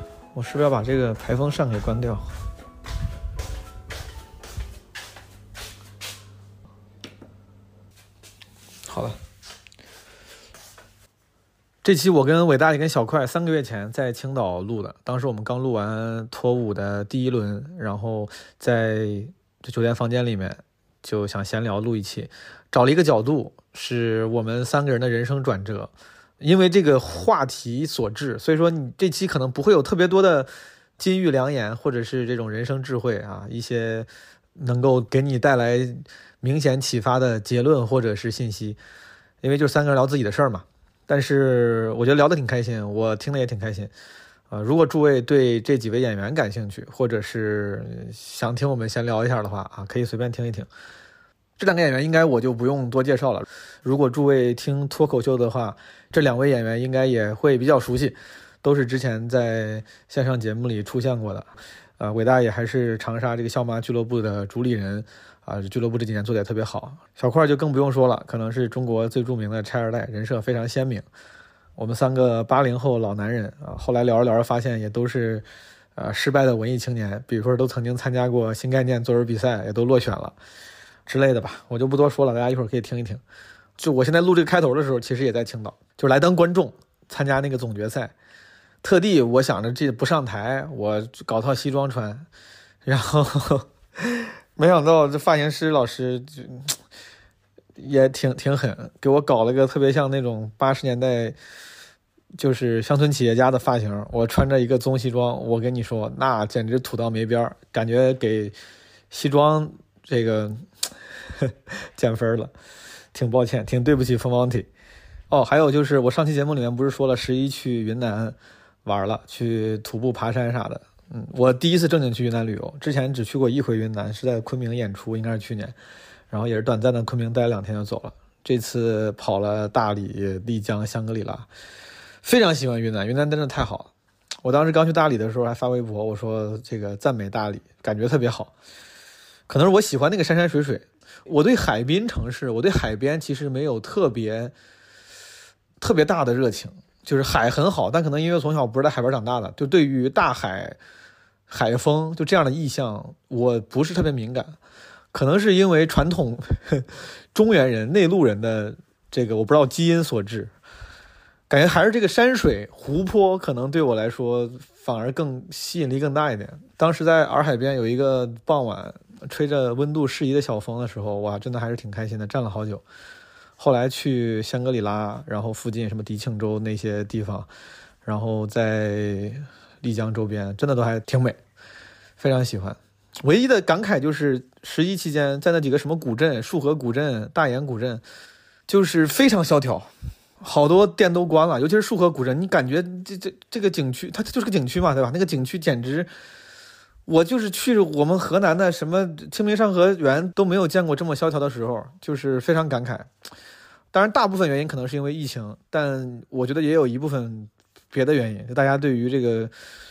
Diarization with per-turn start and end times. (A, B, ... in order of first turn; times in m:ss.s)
0:00.3-0:02.3 A
0:08.9-0:09.2 A
0:11.8-0:38.8 A
0:39.4-0:43.9 A
0:44.5-0:50.7 A
0:51.6-1:01.5 A
1:02.0-1:11.0 A
1:11.8-1:15.4 A
1:16.0-1:20.3 A
1:21.1-1:23.2 A
1:23.8-1:28.1 A
1:28.8-1:32.2 A
1:32.8-1:36.8 A
1:37.8-1:41.3 A
1:42.4-1:48.5 A
1:49.1-1:50.7 A
1:51.4-1:52.5 A
1:53.1-1:54.7 A
1:55.3-2:05.7 A
2:06.3-2:11.4 A
2:12.2-2:13.9 A
2:14.4-2:18.5 A
2:19.5-2:24.5 A
2:25.8-2:30.8 A
2:31.5-2:34.6 A
2:35.1-2:40.5 A
2:41.5-2:52.8 A
2:53.6-2:57.5 A
2:58.0-3:01.4 A
3:02.2-3:08.0 A
3:08.7-3:09.9 A
3:10.4-3:16.1 A
3:17.1-3:23.1 A
3:23.9-3:29.5 A